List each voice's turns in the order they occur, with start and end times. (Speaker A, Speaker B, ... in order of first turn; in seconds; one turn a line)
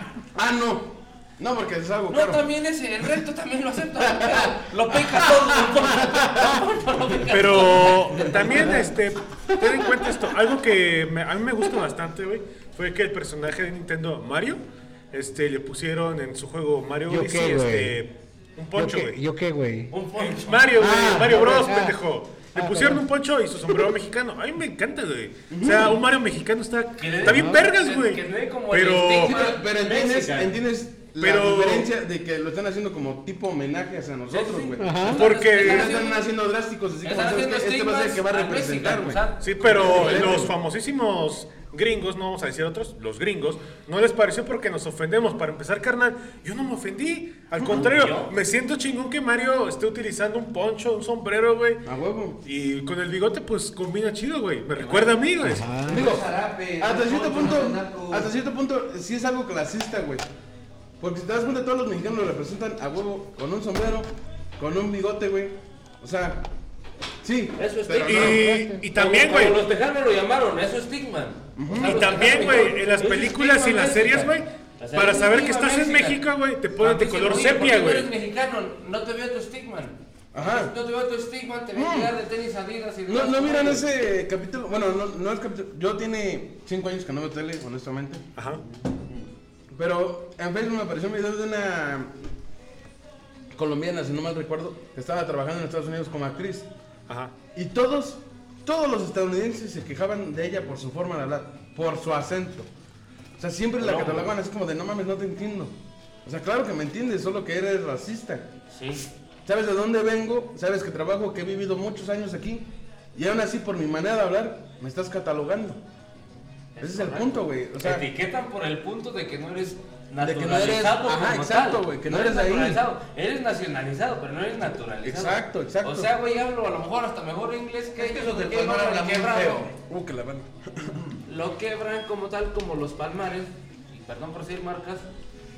Speaker A: 0.3-2.4
Speaker B: 2.1-8.8
Speaker C: 7.3-14.6
Speaker C: 15.1-19.2
Speaker D: 17.1-18.0
Speaker D: 18.7-19.9
Speaker B: 19.9-20.8
Speaker C: 20.2-29.4
Speaker D: 20.8-22.0
Speaker D: 22.5-23.0
Speaker A: 25.5-26.0
Speaker B: 27.0-30.6
Speaker D: 27.2-27.6
Speaker A: 29.2-40.5
Speaker C: 31.2-31.9
Speaker B: 34.3-36.3
Speaker D: 34.8-35.2
Speaker C: 35.0-36.0
Speaker B: 37.0-40.5
Speaker C: 39.4-51.8
Speaker B: 47.6-48.3
Speaker A: 51.8-52.4
Speaker C: 52.4-55.9
Speaker D: 55.4-56.1
Speaker E: 55.9-58.3
Speaker A: 55.9-56.2
Speaker A: 56.8-60.2
Speaker A: 61.0-66.4
Speaker A: 67.2-68.5
Speaker B: 67.6-76.2
Speaker C: 68.0-69.6
Speaker D: 68.3-68.8
Speaker A: 71.5-72.2
Speaker C: 71.7-78.1
Speaker B: 76.8-83.9
Speaker A: 80.3-80.7
Speaker A: 81.7-82.1
Speaker A: 83.0-88.2
Speaker C: 88.3-88.6
Speaker A: 89.7-92.1
Speaker A: 93.5-96.7
Speaker C: 97.1-97.3
Speaker A: 97.5-102.7
Speaker A: 103.4-105.7
Speaker B: 103.8-104.3
Speaker A: 106.2-108.5
Speaker B: 108.7-109.0
Speaker A: 109.5-115.8
Speaker B: 116.8-129.7
Speaker A: 116.8-118.0
Speaker A: 120.2-122.8
Speaker A: 125.0-126.1
Speaker E: 128.0-129.7
Speaker A: 129.7-131.1
Speaker B: 131.2-135.1